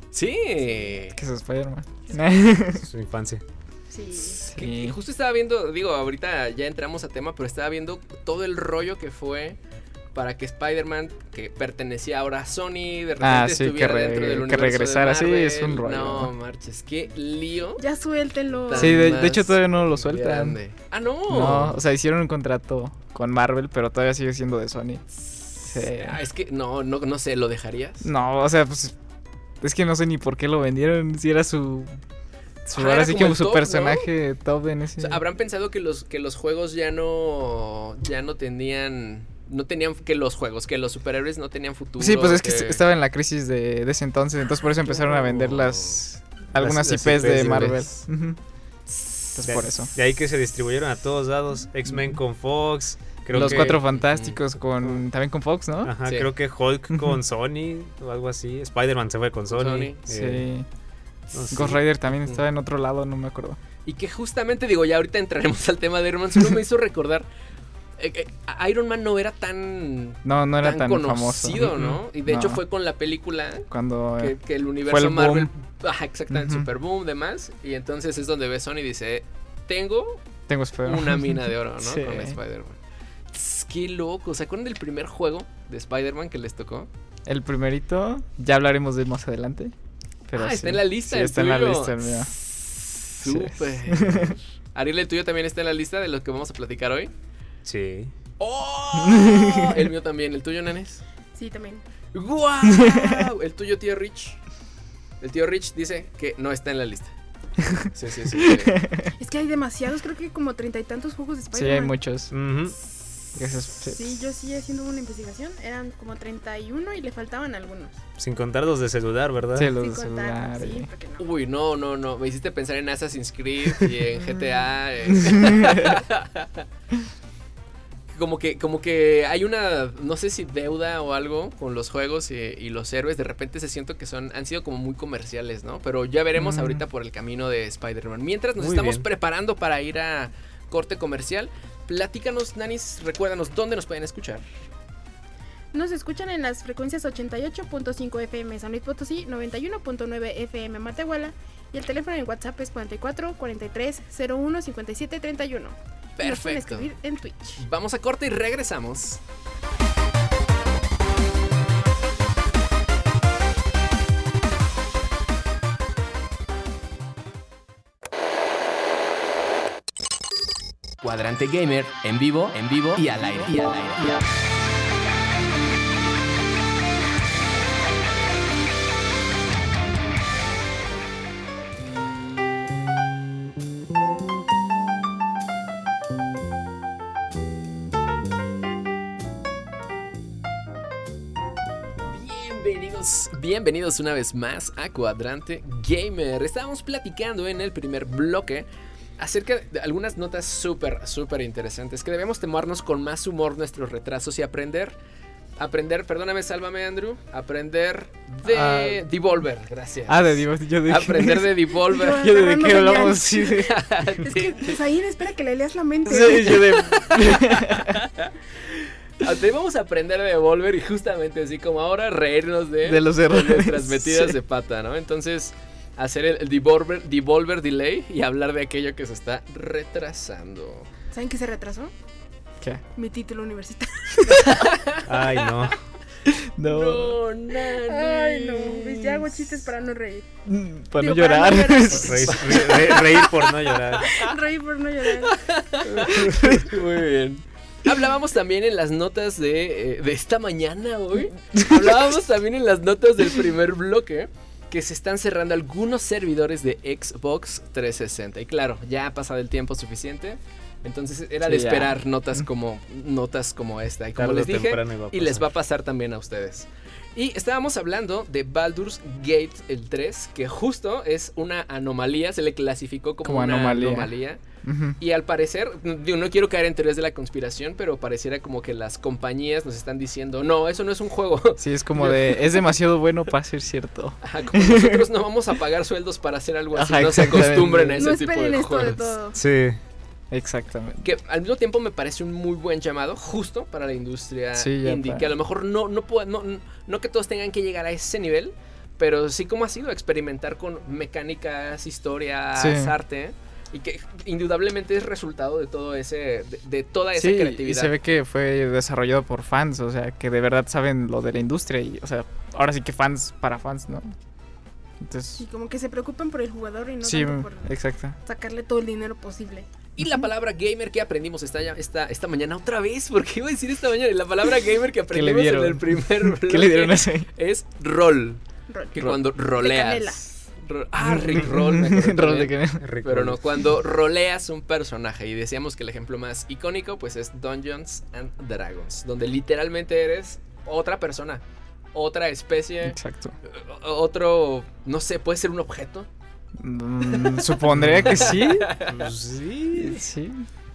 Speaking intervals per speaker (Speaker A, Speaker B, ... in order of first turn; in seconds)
Speaker A: 0.1-1.2, 4.2-9.6, 10.1-17.8, 18.7-21.8, 25.2-28.1, 32.7-34.1, 35.0-42.8, 44.7-46.0, 47.1-47.8, 48.9-49.5, 53.3-53.9, 59.5-60.0, 63.9-67.2, 68.0-73.7, 74.2-80.2, 80.8-82.8, 83.3-86.9, 90.4-97.1, 98.4-101.0, 102.1-104.4, 105.2-107.1, 107.9-108.8, 121.2-126.7, 128.1-144.4, 156.2-156.9, 157.6-159.2, 171.0-174.3, 192.0-198.7, 199.2-204.9, 205.6-212.6, 213.6-214.8, 216.3-230.9, 234.5-235.5, 236.7-239.7, 242.4-244.3, 245.2-274.4, 275.0-282.7, 284.2-289.1, 291.0-307.9, 320.0-328.4, 328.9-341.4, 341.9-346.1, 347.1-349.1
Speaker B: 0.6-1.0, 2.1-2.4, 3.9-4.4, 17.8-19.3, 101.3-101.8, 109.2-112.0, 113.8-118.0, 119.7-121.3, 145.7-157.6, 211.9-216.7, 231.1-231.9, 232.9-234.8, 237.7-240.3, 241.0-243.3, 244.0-245.4, 288.0-289.4, 315.4-317.7, 318.2-319.7, 328.7-330.2
Speaker C: 1.1-2.8, 4.5-5.0, 13.2-16.3, 18.7-20.6, 21.3-25.0, 25.7-26.2, 28.0-28.9, 29.6-31.9, 32.7-35.2, 42.0-48.4, 49.4-49.9, 51.9-52.2, 53.3-55.9, 60.1-60.7, 61.5-63.6, 70.2-71.7, 72.2-72.6, 73.7-74.3, 74.9-75.5, 76.3-76.7, 80.5-82.4, 87.3-89.7, 90.3-92.3, 93.2-94.3, 99.0-99.9, 102.7-103.2, 107.7-109.1, 111.5-112.3, 113.3-114.2, 119.5-120.9, 125.1-126.0, 136.4-136.8, 208.5-209.0, 210.1-213.8, 216.1-218.1, 222.8-224.4, 236.2-237.2, 240.5-242.4, 246.2-246.7, 261.4-262.4, 273.2-275.0, 281.6-285.1, 286.8-288.0, 290.3-291.1, 294.6-295.3, 302.6-302.9, 307.2-314.1, 315.0-315.4, 317.0-318.2, 320.0-320.3, 325.1-327.3, 331.0-332.9, 342.8-343.3, 346.6-348.7, 349.7-350.5
Speaker D: 2.8-3.4, 46.5-47.9, 49.4-55.0, 55.8-60.5, 61.3-61.8, 71.6-72.0, 97.7-98.1, 112.3-112.8, 118.2-119.7, 138.6-139.1, 235.1-235.8, 241.9-244.2, 264.2-265.5, 289.3-289.8, 332.8-333.4, 347.7-350.0